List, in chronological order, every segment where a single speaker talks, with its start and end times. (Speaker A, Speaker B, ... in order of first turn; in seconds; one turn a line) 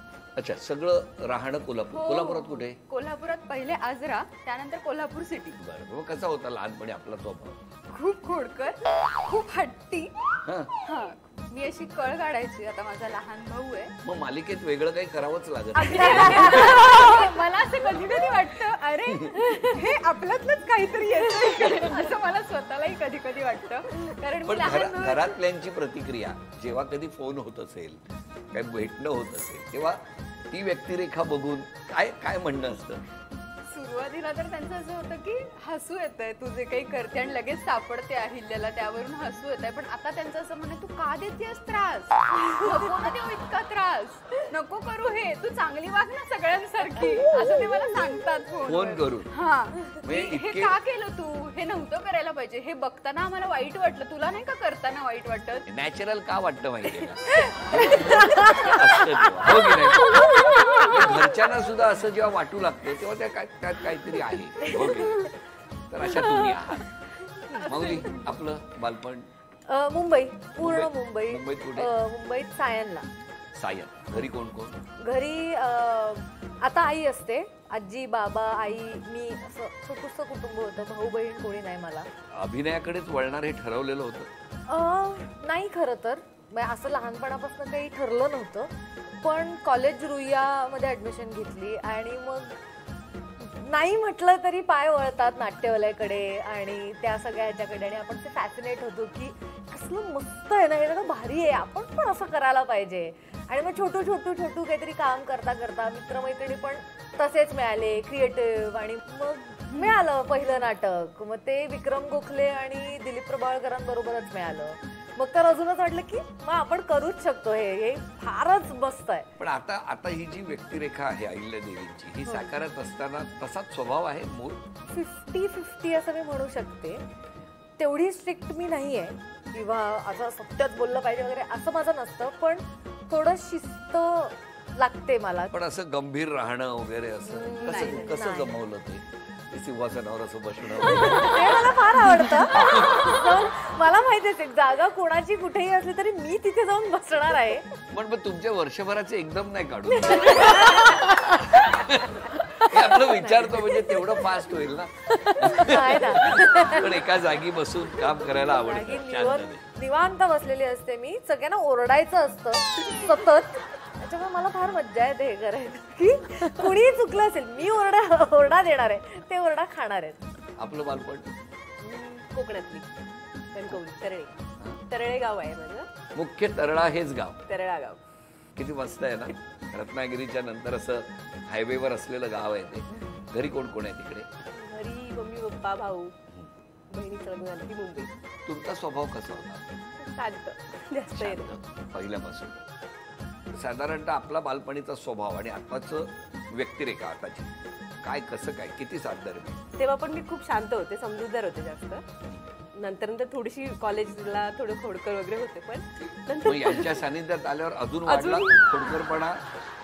Speaker A: 0.4-2.8
Speaker B: 1.9-5.6
Speaker A: 5.6-7.6
Speaker B: 7.9-10.1
Speaker A: 10.4-10.7
Speaker B: 10.8-13.9
Speaker A: 14.1-16.9
Speaker B: 15.7-25.3
Speaker C: 16.3-16.6
Speaker A: 19.1-19.5
Speaker A: 24.4-28.0
Speaker A: 28.5-33.0
Speaker B: 33.7-55.6
Speaker A: 48.7-49.3
Speaker A: 50.0-50.8
Speaker A: 55.7-65.3
Speaker C: 58.4-58.7
Speaker C: 60.3-60.8
Speaker A: 65.9-67.0
Speaker B: 67.5-68.3
Speaker A: 67.6-69.3
Speaker C: 69.7-73.1
Speaker A: 70.6-71.9
Speaker A: 73.5-74.8
Speaker C: 75.0-82.1
Speaker A: 82.3-84.3
Speaker C: 84.7-92.6
Speaker C: 93.4-119.3
Speaker B: 109.7-110.0
Speaker A: 119.4-124.6
Speaker C: 122.3-122.5
Speaker C: 124.9-127.0
Speaker C: 127.8-135.5
Speaker A: 135.5-141.7
Speaker C: 137.3-138.6
Speaker C: 140.9-147.7
Speaker A: 142.5-143.2
Speaker A: 147.9-159.6
Speaker D: 150.1-150.8
Speaker C: 150.3-151.7
Speaker C: 152.4-154.1
Speaker C: 155.2-157.0
Speaker C: 158.2-170.2
Speaker A: 170.6-171.3
Speaker D: 171.8-172.9
Speaker D: 173.5-174.3
Speaker D: 174.9-175.9
Speaker A: 176.2-177.4
Speaker D: 177.5-178.0
Speaker A: 178.6-184.3
Speaker D: 184.5-186.2
Speaker D: 186.9-188.1
Speaker A: 188.5-189.7
Speaker D: 190.0-191.5
Speaker A: 191.1-192.6
Speaker A: 193.5-199.6
Speaker D: 199.8-202.0
Speaker D: 202.8-207.1
Speaker A: 206.4-209.4
Speaker D: 208.1-208.7